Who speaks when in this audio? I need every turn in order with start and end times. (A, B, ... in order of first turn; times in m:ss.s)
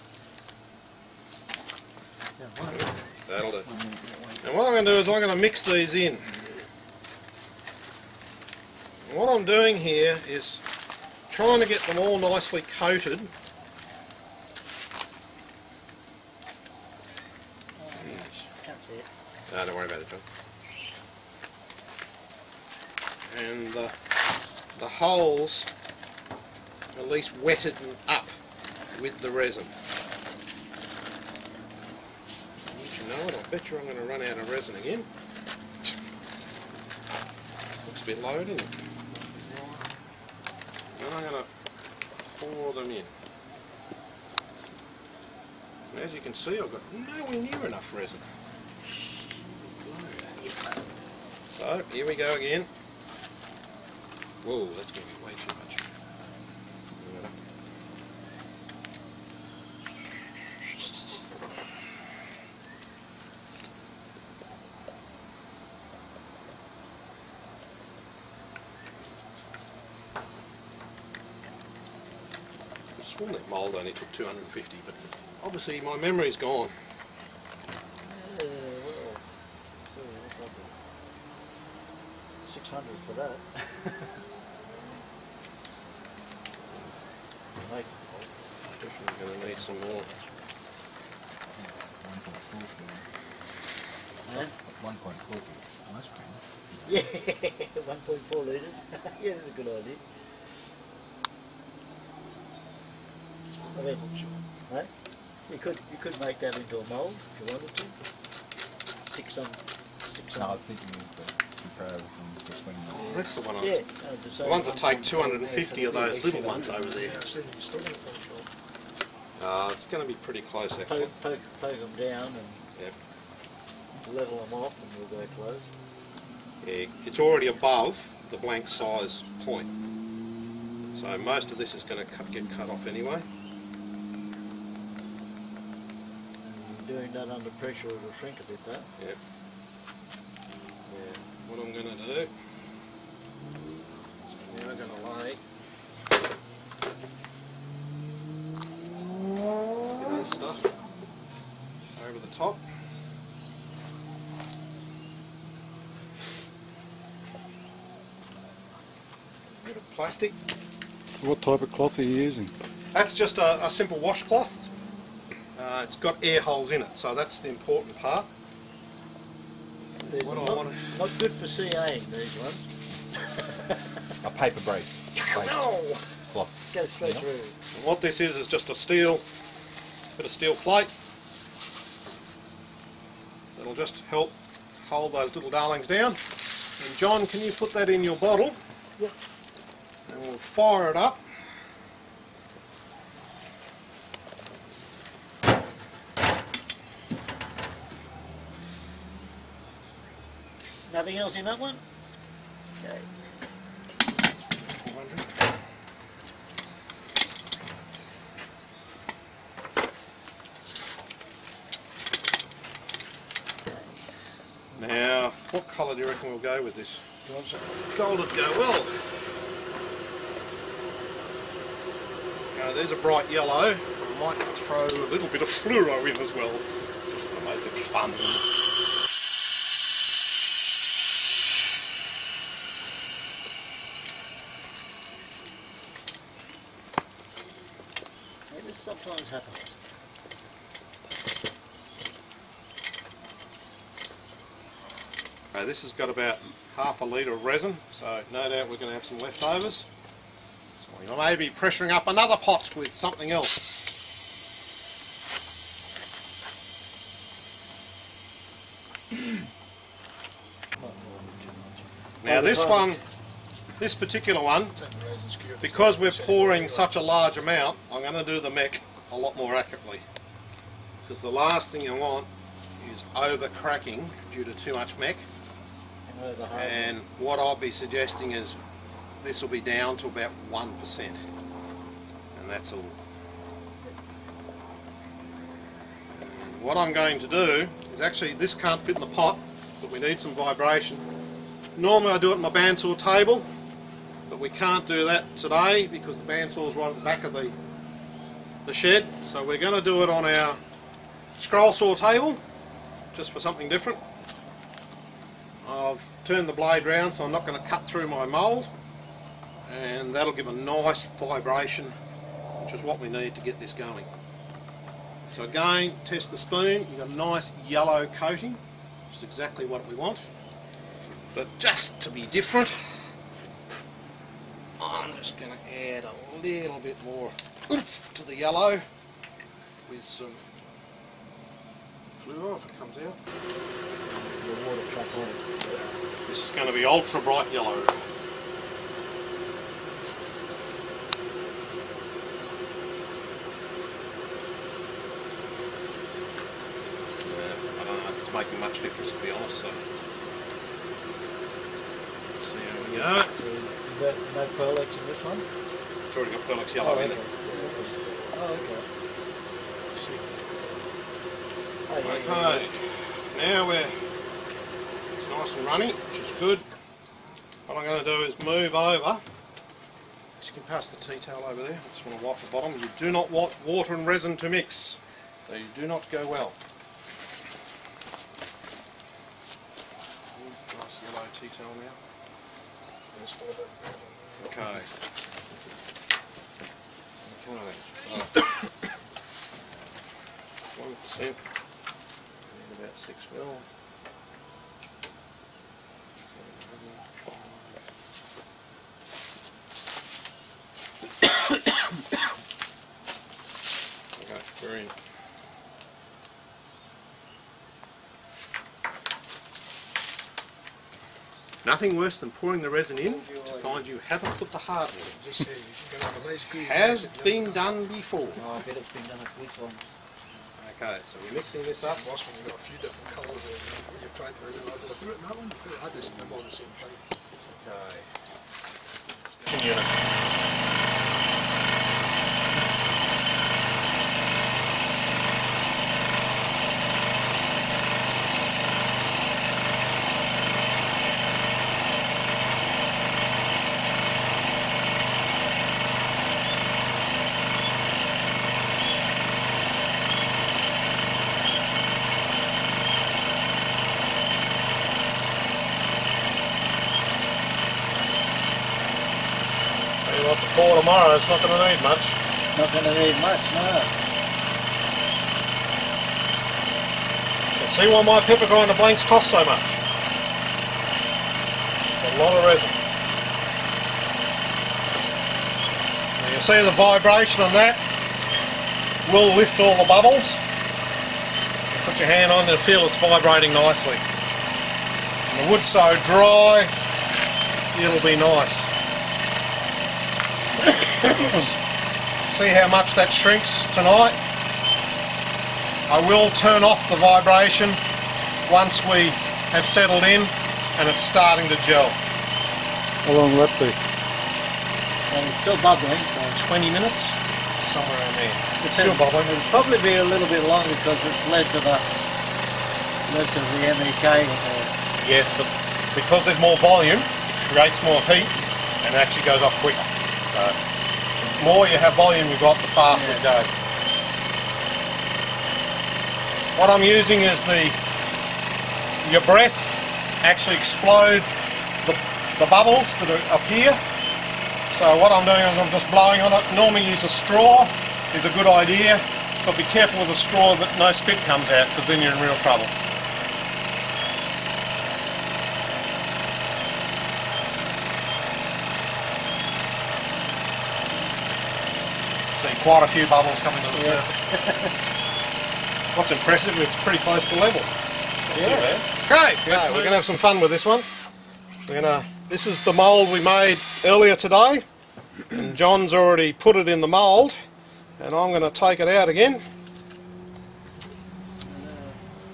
0:02.4-0:03.0 A
0:02.7-0:03.7 B
0:03.7-0:04.2 C
0:03.7-0:04.4 A
0:04.4-0:06.3 B
0:09.1-0:10.6 B
0:11.3-0:13.3 B
0:17.8-0:19.1 A
0:18.0-0:18.4 B
0:19.5-0:20.2 B
0:23.3-0:24.0 B
0:24.8-0:25.7 B
0:26.9-0:28.3 B
0:28.9-0:29.7 B
0:32.7-0:35.1 B
0:37.8-0:38.7 B
0:39.3-0:39.8 B
0:40.9-0:41.5 B
0:42.2-0:43.1 B
0:45.9-0:48.2 B
0:49.7-0:50.4 B
0:51.6-0:52.7 B
0:54.4-0:55.8 B
0:57.0-0:57.3 B
1:00.6-1:01.3 B
1:13.0-1:16.7 B
1:18.0-1:19.2 A
1:19.8-1:20.7 A
1:22.4-1:24.1 A
1:27.6-1:28.3 A
1:28.7-1:30.1 B
1:29.7-1:30.2 A
1:31.6-1:33.1 C
1:34.2-1:34.6 A
1:34.3-1:37.1 C
1:36.8-1:40.0 A
1:43.5-1:44.4 D
1:43.8-1:44.0 A
1:45.5-1:48.0 A
1:49.0-1:50.6 A
1:50.3-1:53.3 C
1:52.9-1:53.8 B
1:53.6-1:57.0 A
1:54.4-1:57.2 B
1:56.4-1:56.8 C
1:56.9-1:58.5 D
1:59.4-2:01.1 B
2:00.9-2:02.6 A
2:04.0-2:05.7 A
2:06.6-2:09.7 B
2:10.9-2:13.3 B
2:16.4-2:18.9 A
2:20.9-2:22.3 B
2:24.3-2:25.4 B
2:29.9-2:30.7 B
2:32.0-2:32.6 B
2:39.6-2:40.4 B
2:41.2-2:42.5 E
2:42.9-2:44.7 B
2:45.6-2:48.3 B
2:50.0-2:52.7 A
2:50.2-2:51.0 B
2:54.2-2:55.6 C
2:55.2-2:56.0 B
2:56.3-2:57.3 C
2:56.7-2:57.6 A
2:57.7-2:59.2 B
3:00.2-3:00.9 B
3:03.6-3:06.2 B
3:06.8-3:08.6 B
3:10.1-3:11.2 B
3:20.9-3:21.8 A
3:22.8-3:23.1 A
3:24.4-3:25.3 B
3:34.8-3:39.2 B
3:42.5-3:48.5 B
3:58.5-3:59.8 A
4:05.5-4:09.9 B
4:10.8-4:13.8 B
4:20.8-4:23.0 A
4:22.2-4:23.0 B
4:23.8-4:24.8 B
4:24.8-4:27.0 D
4:25.6-4:30.0 B
4:31.0-4:35.2 B
4:36.1-4:37.0 A
4:36.5-4:38.6 B
4:39.2-4:41.2 B
4:42.4-4:43.0 B
4:46.2-4:51.0 B
4:51.8-4:53.5 B
4:54.3-4:57.6 B
4:58.6-5:00.6 B
5:01.4-5:02.4 B
5:03.1-5:04.0 B
5:05.6-5:08.7 B
5:09.6-5:12.0 B
5:12.6-5:14.1 B
5:15.3-5:20.2 B
5:21.3-5:23.1 B
5:24.8-5:28.8 B
5:29.9-5:30.4 B
5:32.1-5:33.2 B
5:34.1-5:35.8 A
5:36.3-5:38.0 B
5:47.2-5:49.8 B
5:52.4-5:53.3 B
5:52.8-5:55.4 A
5:56.1-5:57.2 B
5:56.8-5:58.9 A
5:57.4-5:58.4 D
5:59.9-6:00.9 D
6:01.9-6:02.7 A
6:02.0-6:04.0 B
6:05.2-6:06.6 B
6:07.7-6:09.2 B
6:10.4-6:16.6 B
6:20.3-6:22.0 B
6:23.1-6:24.9 D
6:24.4-6:24.9 B
6:27.2-6:28.7 B
6:30.8-6:31.4 B
6:32.5-6:33.6 B
6:36.2-6:37.8 B
6:44.2-6:45.0 B
6:51.6-6:55.2 B
6:53.0-6:53.8 A
6:55.1-6:57.8 D
6:56.5-6:58.4 B
6:58.3-6:59.8 A
7:00.6-7:02.0 B
7:01.8-7:07.1 D
7:07.6-7:08.0 D
7:09.3-7:09.6 D
7:09.5-7:09.9 B
7:40.0-7:42.2 B
7:42.5-7:43.9 A
7:47.6-7:49.8 B
7:52.0-7:52.8 B
7:56.2-7:57.9 B
7:59.0-8:00.4 B
8:01.7-8:04.0 B
8:05.3-8:06.7 B
8:07.7-8:08.7 B
8:10.6-8:11.6 B
8:12.2-8:14.2 B
8:15.9-8:17.8 B
8:18.4-8:22.0 B
8:23.0-8:23.8 E
8:25.1-8:26.4 A
8:26.3-8:29.4 B
8:28.6-8:31.9 A
8:33.1-8:34.8 A
8:35.0-8:40.6 B
8:41.2-8:43.5 B
8:42.9-8:43.3 A
8:46.6-8:47.8 B
8:49.0-8:51.3 B
8:51.8-8:53.8 B
8:54.7-9:02.7 B
9:12.3-9:14.1 B
9:13.7-9:14.7 A
9:15.9-9:17.7 B
9:18.3-9:20.9 B
9:18.3-9:18.8 A
9:19.5-9:20.0 A
9:21.7-9:24.6 B
9:25.3-9:27.4 B
9:28.0-9:29.4 B
9:31.5-9:31.9 A